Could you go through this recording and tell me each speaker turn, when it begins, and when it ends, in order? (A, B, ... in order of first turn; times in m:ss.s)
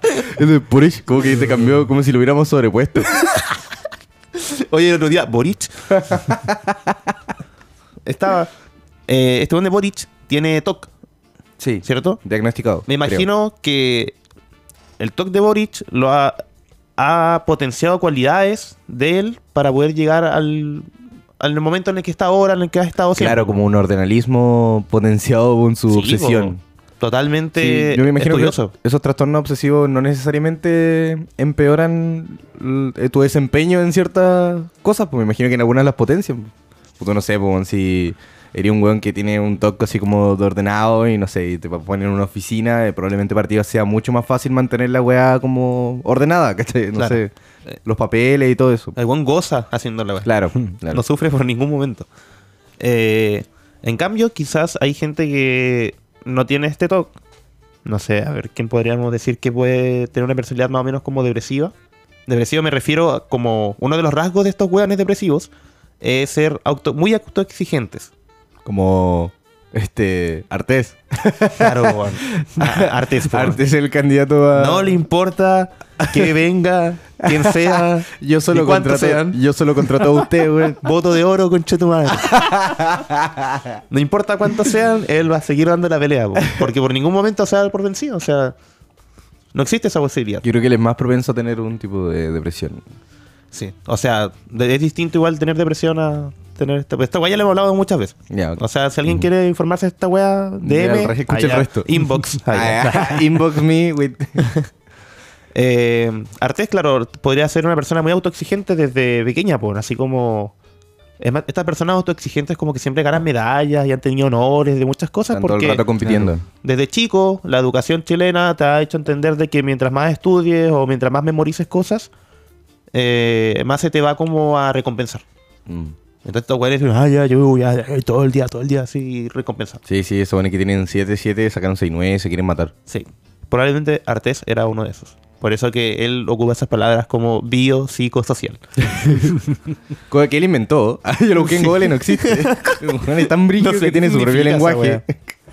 0:00.2-0:03.1 A
0:03.2-0:03.5 B
0:04.4-0:06.3 B
0:06.1-0:06.9 A
0:08.1-0:08.5 B
0:09.1-0:10.9 B
0:11.6-0:13.2 A
0:11.8-0:12.2 B
0:12.9-0:14.2 B
0:15.0-0:16.4 B
0:17.0-0:20.9 B
0:21.4-0:23.5 B
0:23.2-0:26.6 A
0:25.9-0:28.7 B
0:27.6-0:47.3 A
0:47.8-0:48.9 A
0:48.9-0:50.3 B
0:50.2-0:51.0 A
0:50.9-0:52.1 B
0:52.8-0:57.1 B
0:57.8-1:01.7 B
1:02.3-1:05.5 B
1:06.0-1:08.1 B
1:08.6-1:15.0 A
1:11.6-1:13.6 B
1:14.6-1:20.2 B
1:16.0-1:16.3 A
1:17.2-1:20.8 A
1:20.8-1:22.5 B
1:22.2-1:23.8 A
1:23.9-1:28.6 B
1:29.5-1:30.4 B
1:30.4-1:32.8 A
1:33.5-1:43.2 B
1:38.3-1:39.3 A
1:40.6-1:44.5 A
1:44.4-1:44.7 B
1:45.6-1:50.5 B
1:51.2-1:55.9 B
1:55.3-1:56.4 A
1:56.6-2:02.1 B
2:02.9-2:05.2 B
2:05.7-2:05.9 A
2:06.2-2:09.8 B
2:09.9-2:12.7 A
2:12.9-2:18.6 B
2:18.9-2:19.3 A
2:20.1-2:25.2 A
2:21.5-2:22.8 B
2:23.6-2:25.0 B